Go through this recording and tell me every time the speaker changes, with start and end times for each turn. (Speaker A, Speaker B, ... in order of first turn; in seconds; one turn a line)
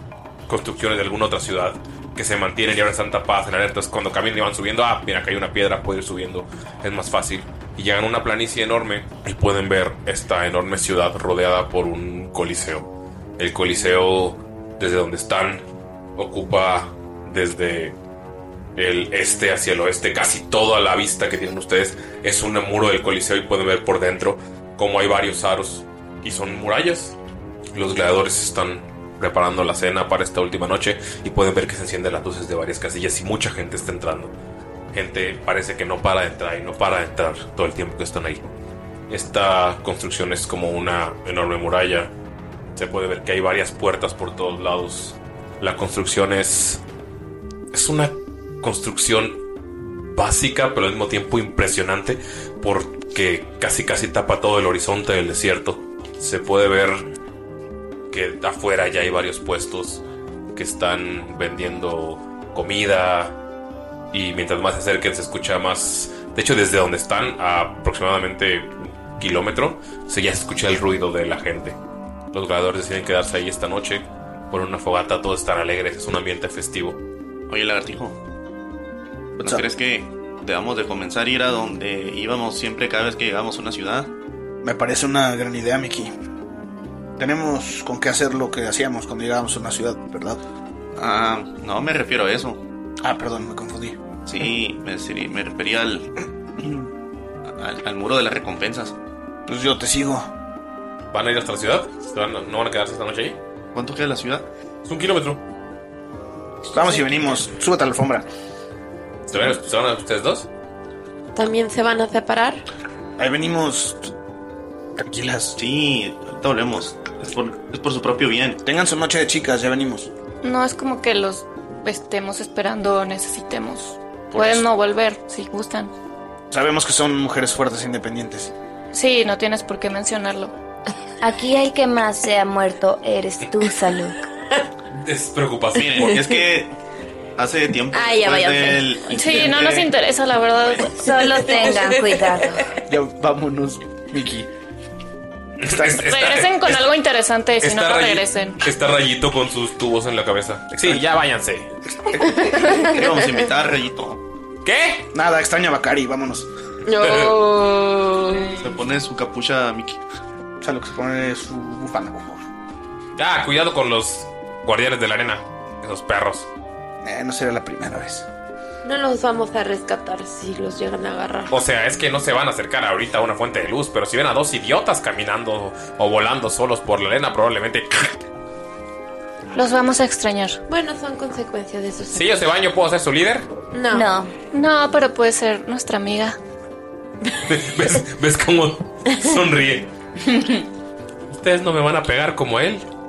Speaker A: 0.5-15.6
Speaker A: 16.2-18.0
Speaker A: 18.8-27.2
Speaker A: 27.7-34.3
Speaker A: 34.9-38.5
Speaker A: 39.1-42.1
Speaker A: 42.8-46.8
Speaker A: 47.7-49.4
Speaker A: 50.0-57.1
Speaker A: 58.1-60.0
Speaker A: 60.5-63.3
Speaker A: 64.1-71.8
Speaker A: 72.3-77.0
Speaker B: 77.5-78.2
Speaker B: 79.4-84.1
Speaker C: 84.6-86.1
Speaker C: 87.2-90.4
Speaker B: 91.0-92.6
Speaker C: 93.0-94.0
Speaker B: 94.3-96.1
Speaker C: 96.6-96.8
Speaker B: 97.5-99.0
Speaker C: 99.5-100.3
Speaker A: 101.1-103.4
Speaker B: 103.7-104.5
Speaker A: 104.8-105.4
Speaker C: 106.7-108.3
Speaker A: 109.3-110.5
Speaker D: 111.3-112.6
Speaker C: 113.2-114.1
Speaker C: 115.0-115.6
Speaker B: 115.6-118.6
Speaker C: 118.6-120.1
Speaker E: 120.4-125.9
Speaker C: 126.5-128.5
Speaker E: 128.9-130.5
Speaker F: 131.2-134.2
Speaker A: 134.9-136.3
Speaker B: 135.8-136.8
Speaker B: 137.4-139.9
Speaker D: 137.9-138.8
Speaker E: 139.1-141.1
Speaker B: 140.6-141.0
Speaker F: 141.0-142.6
Speaker D: 141.1-142.3
Speaker C: 142.9-144.5
Speaker A: 145.6-146.9
Speaker C: 145.7-146.0
Speaker E: 145.9-148.6
Speaker A: 147.6-151.7
Speaker C: 150.7-151.0
Speaker C: 152.1-152.4
Speaker D: 152.5-152.8
Speaker B: 152.8-154.2
Speaker A: 154.7-155.1
Speaker C: 155.1-156.5
Speaker D: 156.9-158.7
Speaker A: 157.0-157.3
Speaker B: 158.6-160.0
Speaker C: 160.6-162.4
Speaker A: 163.2-166.5
Speaker C: 167.0-168.3
Speaker D: 168.8-171.5
Speaker A: 171.5-178.2
Speaker E: 179.5-180.6
Speaker D: 180.7-182.3
Speaker A: 182.1-183.5
Speaker D: 183.7-184.1
Speaker F: 183.9-184.3
Speaker E: 184.5-186.4
Speaker A: 187.4-189.9
Speaker A: 191.3-192.8